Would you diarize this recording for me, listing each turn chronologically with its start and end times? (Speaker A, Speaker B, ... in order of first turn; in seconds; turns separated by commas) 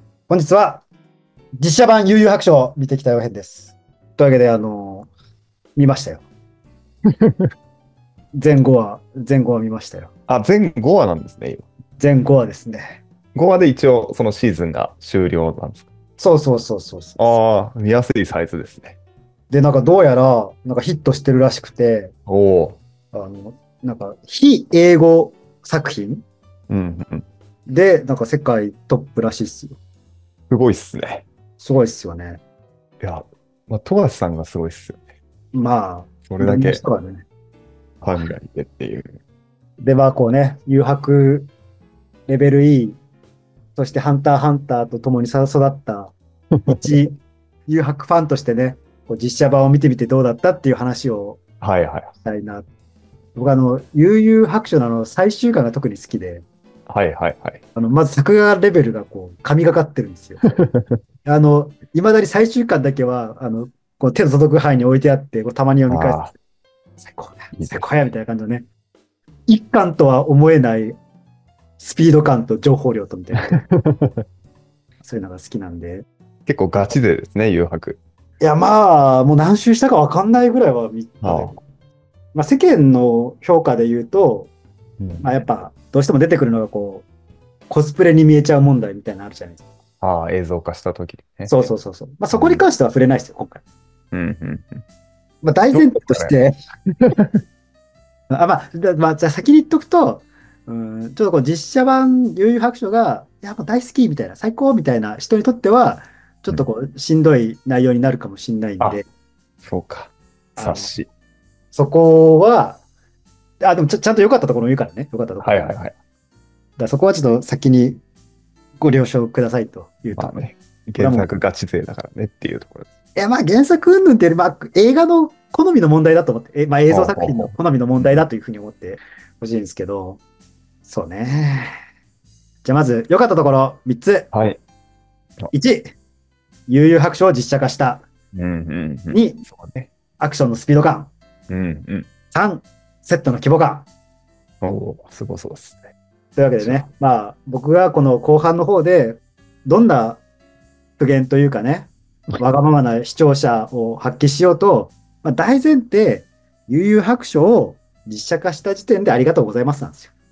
Speaker A: 0.3-0.8, Speaker A: 1.6-5.1, Speaker A: 5.8-6.2, Speaker B: 7.1-7.5, Speaker A: 8.3-10.1, Speaker B: 10.3-11.6, Speaker A: 12.0-13.0, Speaker B: 13.3-15.9, Speaker A: 16.2-17.4, Speaker B: 17.2-19.0, Speaker A: 19.5-22.1, Speaker B: 22.3-22.8, Speaker A: 23.1-26.2, Speaker B: 26.7-27.2, Speaker A: 27.7-29.8, Speaker B: 30.5-31.2, Speaker A: 31.6-32.4, Speaker B: 33.0-35.0, Speaker A: 35.5-37.2, Speaker B: 36.3-36.8, Speaker B: 38.0-39.2, Speaker A: 39.8-41.5, Speaker A: 42.3-43.0, Speaker A: 43.8-46.1, Speaker B: 46.5-46.9, Speaker A: 46.6-51.4, Speaker B: 51.6-52.1, Speaker A: 52.2-52.7, Speaker A: 53.3-56.4, Speaker B: 56.9-57.6, Speaker A: 57.7-60.5, Speaker B: 60.4-61.0, Speaker A: 61.2-66.3, Speaker B: 65.9-66.3, Speaker A: 67.0-68.7, Speaker B: 67.5-67.9, Speaker A: 69.5-71.0, Speaker A: 71.8-73.6, Speaker B: 73.4-74.2, Speaker A: 75.0-76.0, Speaker B: 76.5-78.0, Speaker A: 78.4-81.6, Speaker B: 81.2-81.5, Speaker A: 82.3-84.5, Speaker B: 85.0-85.3, Speaker A: 85.2-87.1, Speaker A: 87.7-89.6, Speaker B: 90.0-91.7, Speaker A: 91.5-93.6, Speaker B: 92.3-92.6, Speaker B: 94.1-94.8, Speaker A: 95.4-96.5, Speaker B: 95.7-96.3, Speaker B: 96.9-97.4, Speaker A: 98.3-109.1, Speaker B: 109.6-111.1, Speaker A: 110.5-110.9, Speaker A: 111.7-112.8, Speaker A: 113.6-115.7, Speaker B: 115.4-115.9, Speaker A: 116.8-118.0, Speaker A: 118.8-121.4, Speaker B: 120.2-122.9, Speaker A: 123.1-130.2, Speaker B: 126.9-128.2, Speaker A: 130.8-131.7, Speaker A: 132.6-134.3, Speaker B: 134.3-134.6, Speaker A: 135.5-135.9, Speaker A: 136.7-138.1, Speaker B: 138.3-139.9, Speaker A: 139.1-139.4, Speaker A: 140.2-141.1, Speaker B: 141.5-142.1, Speaker A: 142.3-143.9, Speaker B: 144.6-145.8, Speaker A: 146.3-150.2, Speaker B: 146.6-146.8, Speaker A: 151.0-160.1